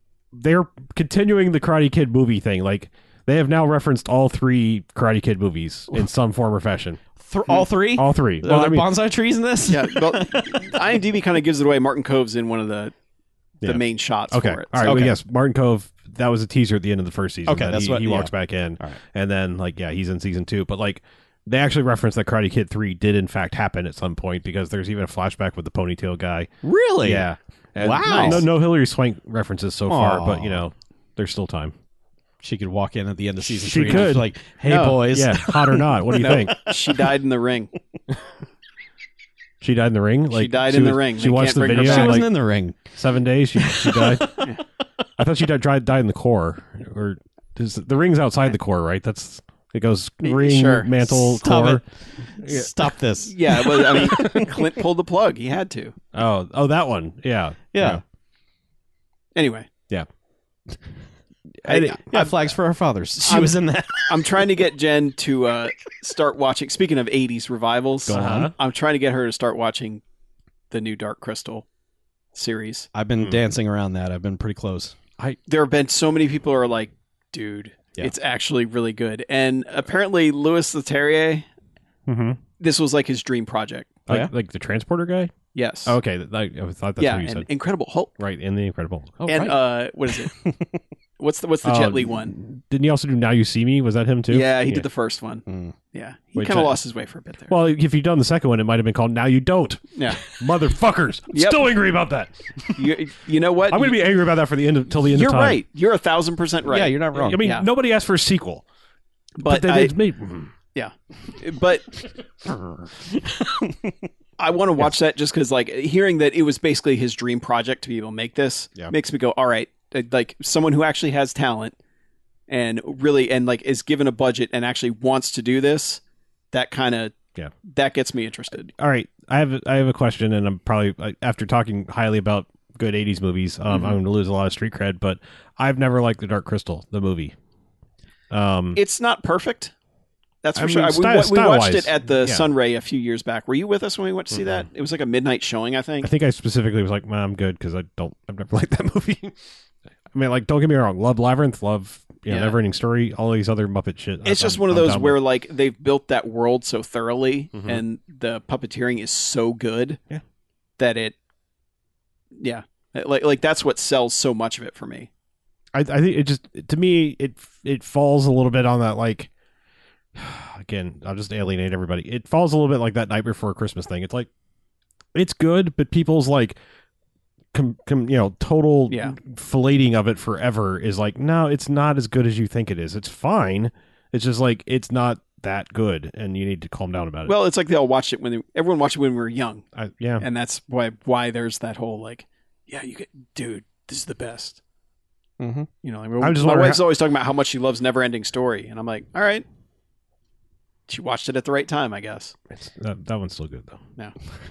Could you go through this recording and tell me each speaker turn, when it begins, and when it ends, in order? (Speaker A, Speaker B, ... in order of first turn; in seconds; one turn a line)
Speaker A: 0.3-7.0
Speaker B: 7.2-10.8
Speaker A: 7.9-8.9
Speaker C: 9.7-12.9
Speaker A: 13.6-26.5
Speaker C: 13.6-15.1
Speaker B: 14.8-15.1
Speaker B: 17.4-19.0
Speaker B: 26.6-27.2
Speaker A: 27.0-31.7
Speaker B: 27.8-28.4
Speaker C: 28.0-28.4
Speaker B: 29.9-30.6
Speaker B: 32.4-37.1
Speaker A: 33.4-34.3
Speaker C: 34.6-35.1
Speaker A: 35.1-36.5
Speaker C: 36.2-37.7
Speaker A: 39.6-42.3
Speaker C: 40.3-42.3
Speaker B: 41.7-42.8
Speaker A: 42.9-44.4
Speaker B: 43.6-44.5
Speaker A: 45.2-51.8
Speaker C: 50.2-51.0
Speaker B: 51.1-54.7
Speaker A: 52.4-52.7
Speaker C: 53.2-55.9
Speaker A: 54.0-54.5
Speaker A: 56.1-58.0
Speaker B: 57.7-58.0
Speaker C: 59.3-59.7
Speaker A: 61.6-62.0
Speaker C: 61.7-62.5
Speaker B: 62.0-64.6
Speaker C: 63.2-70.0
Speaker B: 68.1-68.5
Speaker A: 68.1-68.5
Speaker C: 70.7-71.6
Speaker C: 72.3-72.9
Speaker B: 72.9-74.9
Speaker C: 75.5-81.5
Speaker A: 82.1-82.4
Speaker C: 82.6-84.0
Speaker A: 84.1-85.3
Speaker C: 85.5-86.0
Speaker A: 85.8-87.5
Speaker C: 87.0-88.1
Speaker A: 88.2-89.2
Speaker B: 89.2-90.8
Speaker C: 89.3-90.3
Speaker C: 91.2-92.3
Speaker A: 91.6-94.8
Speaker C: 94.3-97.5
Speaker B: 95.5-95.7
Speaker A: 96.3-96.8
Speaker A: 97.5-102.8
Speaker C: 100.0-100.2
Speaker C: 101.3-101.7
Speaker C: 102.7-104.0
Speaker A: 103.7-105.6
Speaker C: 105.1-107.6
Speaker B: 106.7-107.4
Speaker A: 107.1-108.6
Speaker C: 109.4-109.9
Speaker A: 109.4-110.5
Speaker C: 110.7-111.9
Speaker B: 112.5-114.1
Speaker C: 114.4-121.7
Speaker C: 122.5-126.0
Speaker C: 126.5-127.1
Speaker C: 127.6-128.7
Speaker A: 128.7-137.3
Speaker C: 133.7-133.9
Speaker A: 138.3-138.8
Speaker C: 138.8-139.7
Speaker C: 140.4-146.1
Speaker A: 140.6-142.4
Speaker A: 144.3-144.7
Speaker A: 146.0-149.3
Speaker A: 150.1-155.2
Speaker C: 152.3-152.6
Speaker C: 154.2-160.0
Speaker A: 157.5-157.8
Speaker C: 160.8-161.1
Speaker C: 162.4-165.1
Speaker A: 165.7-169.3
Speaker A: 170.2-174.3
Speaker A: 175.1-176.6
Speaker A: 177.5-187.3
Speaker C: 178.9-179.1
Speaker C: 187.2-189.6
Speaker A: 189.8-190.2
Speaker C: 190.2-194.6
Speaker B: 195.4-195.7
Speaker C: 195.8-199.4
Speaker A: 196.2-196.8
Speaker C: 200.9-202.3
Speaker A: 202.5-203.8